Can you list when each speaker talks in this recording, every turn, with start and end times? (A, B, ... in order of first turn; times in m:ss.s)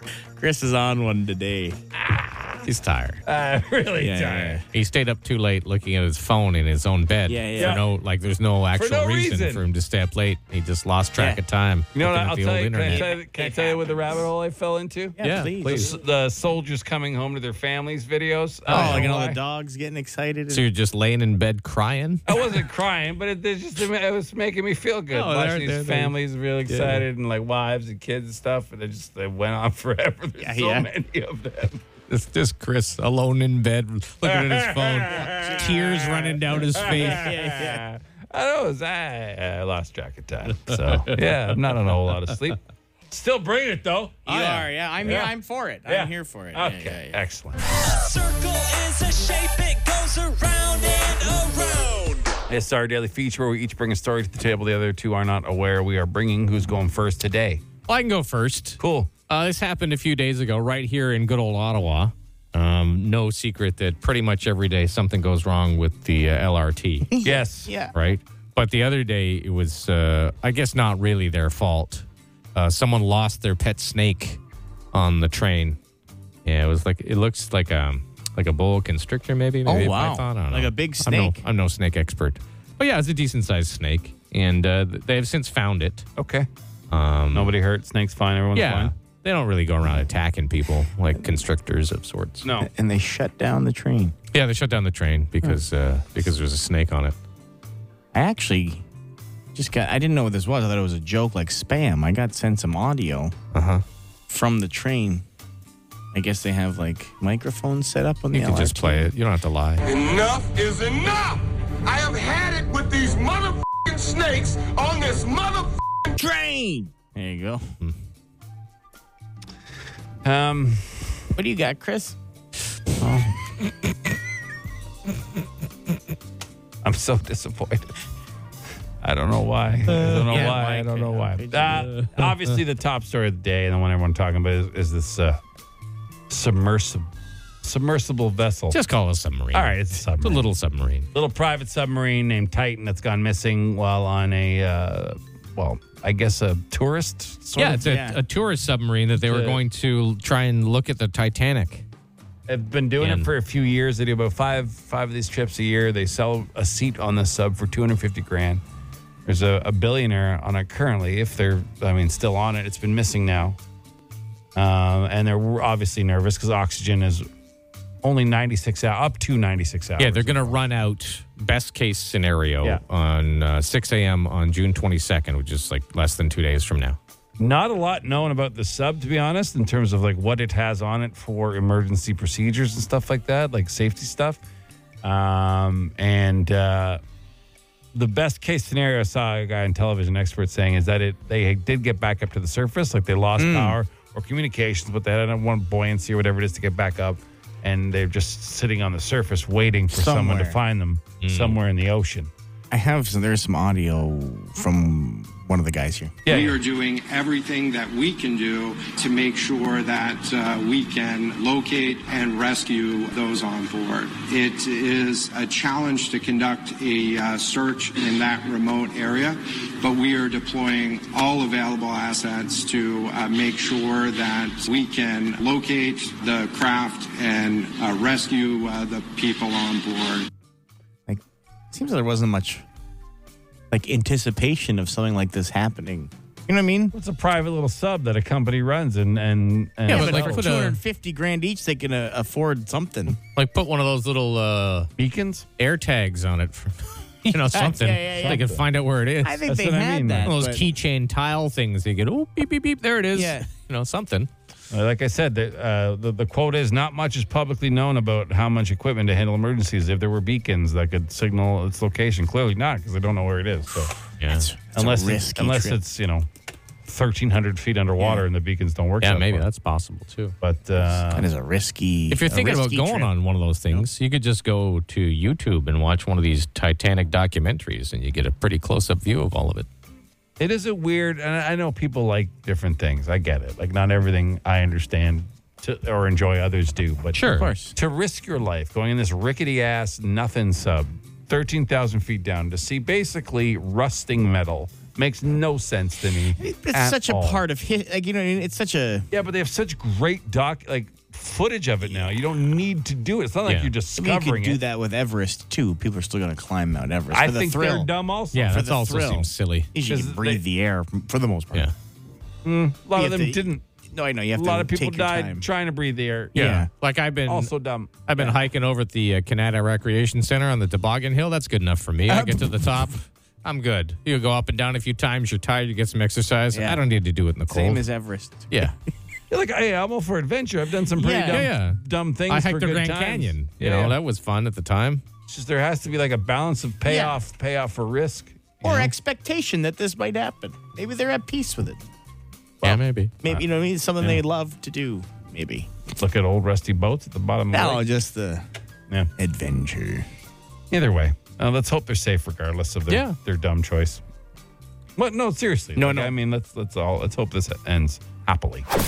0:00.4-0:01.8 A
0:02.0-0:02.6 B
0:02.6-0:03.2 C
0:03.2-0:04.6 B
0:04.0-0:04.6 A
0:04.7-0:13.1 C
0:07.3-0:07.8 A
0:07.6-0:07.9 B
0:08.7-0:09.6 B
0:11.2-0:11.4 A
0:12.0-0:19.4 B
0:12.9-0:14.2 A
0:15.2-0:16.0 A
0:15.2-0:15.6 C
0:18.7-0:19.1 C
0:18.7-0:20.7 A
0:20.5-0:22.4 C
0:22.3-0:31.8 B
0:25.1-0:26.2 C
0:26.7-0:27.0 C
0:30.4-0:30.9 A
0:32.1-0:37.3 C
0:34.2-0:45.3 B
0:35.2-0:35.9 A
0:36.9-0:37.9 A
0:44.3-0:47.2 A
0:45.9-0:47.6 B
0:47.6-0:52.3 D
0:52.5-0:57.6 B
0:57.9-1:07.1 C
0:58.8-0:59.1 B
1:07.1-1:07.9 A
1:07.2-1:07.7 B
1:07.9-1:14.4 C
1:14.9-1:15.8 C
1:16.4-1:26.1 C
1:19.7-1:21.4 A
1:26.2-1:26.5 B
1:26.9-1:27.5 C
1:27.3-1:28.9 B
1:28.6-1:32.4 C
1:32.4-1:32.7 B
1:32.6-1:34.2 A
1:34.3-1:37.2 C
1:38.1-1:38.8 A
1:39.6-1:43.4 A
1:43.5-1:43.8 C
1:44.3-1:45.2 A
1:46.1-1:49.1 A
1:48.3-1:49.8 C
1:49.8-1:55.8 E
1:56.1-1:57.7 A
2:00.2-2:01.3 B
2:01.4-2:02.2 A
2:06.8-2:07.9 B
2:09.0-2:15.4 B
2:09.9-2:11.9 A
2:10.2-2:11.2 C
2:11.8-2:12.3 C
2:16.3-2:17.1 B
2:17.6-2:18.8 B
2:18.7-2:21.1 C
2:19.5-2:20.5 B
2:21.1-2:27.6 B
2:27.5-2:28.2 A
2:27.6-2:31.8 C
2:29.2-2:29.6 B
2:32.5-2:38.6 B
2:33.0-2:33.3 C
2:39.3-2:43.6 B
2:44.6-2:47.3 B
2:48.0-2:50.6 B
2:50.0-2:57.0 C
2:57.4-3:04.4 B
3:05.0-3:07.0 B
3:07.9-3:22.3 B
3:13.4-3:13.8 A
3:19.9-3:20.6 A
3:21.2-3:21.6 C
3:22.7-3:26.2 A
3:26.3-3:26.6 B
3:26.3-3:50.3 F
3:51.1-3:52.6 A
3:53.7-3:56.9 A
3:56.9-4:00.5 B
3:59.9-4:00.8 C
3:59.9-4:03.2 A
4:03.4-4:04.9 C
4:05.0-4:05.5 B
4:05.6-4:09.4 C
4:07.5-4:08.6 A
4:08.2-4:08.6 B
4:09.2-4:10.7 A
4:09.5-4:10.3 B
4:10.2-4:14.3 C
4:13.1-4:13.5 A
4:14.7-4:23.9 B
4:24.2-4:24.5 C
4:24.3-4:25.8 A
4:24.8-4:26.3 B
4:26.9-4:29.5 B
4:28.0-4:28.3 A
4:29.0-4:30.4 C
4:30.4-4:31.3 B
4:30.8-4:33.1 A
4:32.1-4:39.7 C
4:40.4-4:47.2 B
4:47.1-4:47.5 C
4:47.2-4:47.8 A
4:47.7-4:57.4 B
4:56.4-4:59.1 A
4:59.1-5:04.6 B
5:03.4-5:03.7 C
5:04.0-5:07.9 A
5:07.1-5:08.6 B
5:08.3-5:09.7 C
5:08.4-5:11.7 A
5:09.8-5:10.4 B
5:12.4-5:13.6 B
5:12.9-5:15.5 A
5:14.3-5:16.5 B
5:16.4-5:16.7 A
5:16.4-5:17.5 C
5:17.3-5:17.9 B
5:18.1-5:27.9 C
5:22.1-5:22.8 A
5:26.5-5:26.8 A
5:27.5-5:28.7 A
5:29.3-5:34.0 B
5:30.9-5:31.5 A
5:31.3-5:35.0 C
5:35.3-5:38.9 B
5:36.8-5:37.2 A
5:38.6-5:41.8 A
5:42.6-5:45.7 A
5:42.6-5:43.2 C
5:46.0-5:47.8 B
5:47.5-5:48.5 A
5:49.2-5:50.1 A
5:50.7-5:54.0 B
5:52.9-5:53.2 C
5:55.0-5:58.7 B
5:55.8-5:56.2 A